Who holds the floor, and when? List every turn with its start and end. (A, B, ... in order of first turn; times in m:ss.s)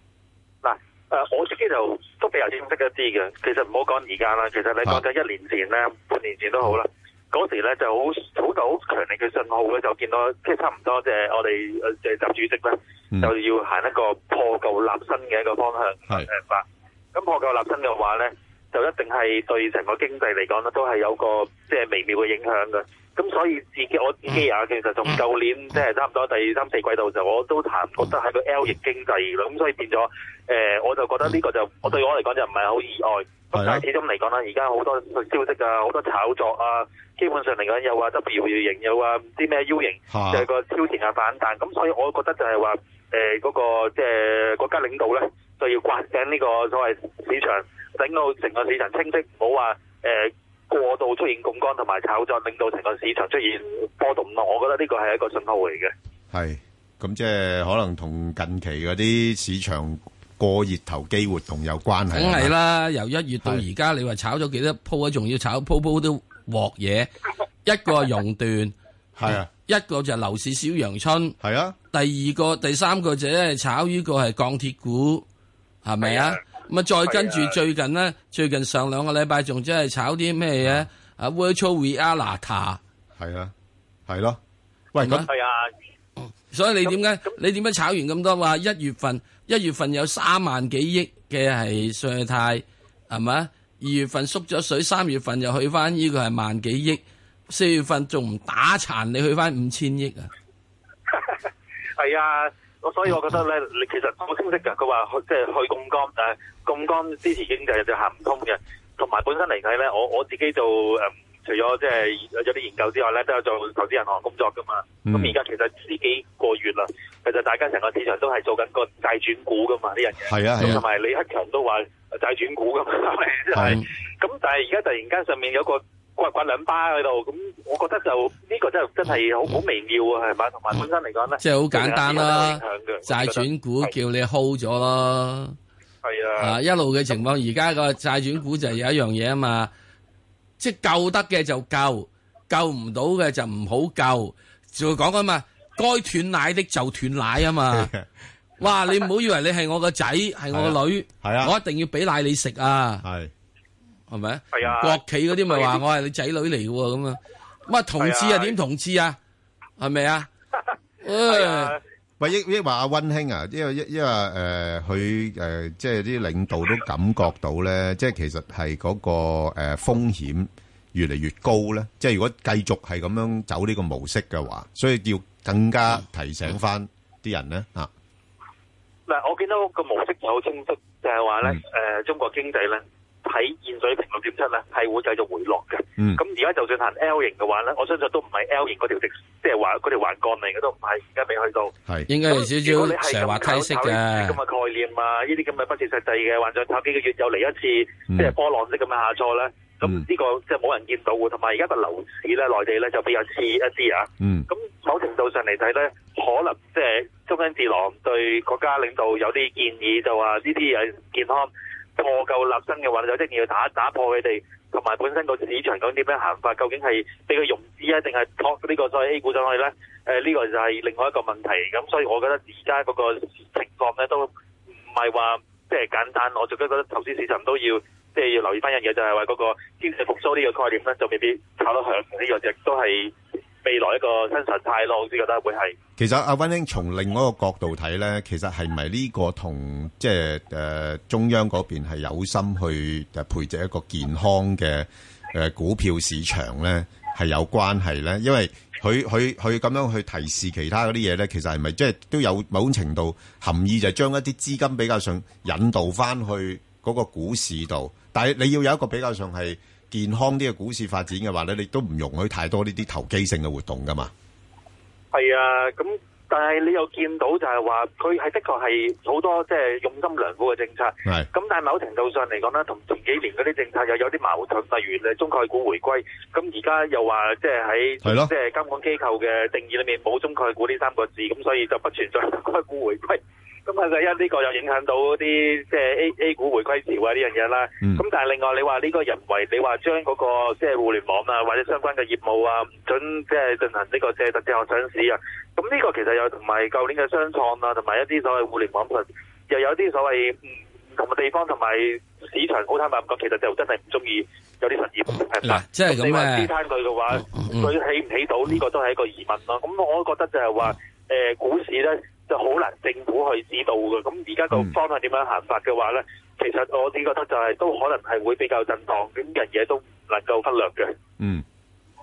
0:00.6-0:55.9 A
0:33.5-0:33.8 B
0:40.1-0:40.5 B
0:56.3-1:02.5 B
1:02.1-1:07.1 C
1:07.6-1:08.7 C
1:09.2-1:09.5 B
1:09.3-1:11.4 C
1:11.4-1:11.8 B
1:11.9-1:15.2 C
1:15.8-1:22.8 C
1:16.0-1:16.3 A
1:17.1-1:17.5 A
1:23.2-1:23.5 B
1:24.1-1:24.4 B
1:24.9-1:25.3 B
1:25.0-1:25.3 C
1:25.3-1:25.7 A
1:26.5-1:40.3 C
1:42.0-2:03.6 A
1:55.0-1:55.4 B
2:00.2-2:00.8 B
2:03.6-2:03.8 B
2:03.6-2:03.8 C
2:04.2-2:13.9 A
2:11.4-2:15.6 C
2:16.0-2:16.6 A
2:16.4-2:19.7 C
2:20.6-2:27.9 C
2:27.8-2:28.0 B
2:28.6-2:33.0 C
2:30.5-2:31.5 B
2:33.0-2:33.3 B
2:34.1-2:39.2 C
2:34.5-2:35.8 A
2:38.0-2:38.6 A
2:39.8-2:40.3 C
2:41.0-2:41.8 C
2:41.3-2:41.8 A
2:42.2-2:57.9 B
2:59.1-3:11.7 A
3:11.8-3:12.1 B
3:12.1-3:14.4 C
3:12.3-3:44.3 A
3:18.1-3:18.4 B
3:24.2-3:24.5 B
3:44.9-3:55.8 A
3:56.0-4:24.1 B
4:25.1-5:00.4 A
4:38.0-4:38.3 B
5:01.0-5:20.9 A
5:05.4-5:06.5 C
5:07.1-5:07.7 C
5:21.2-5:21.4 B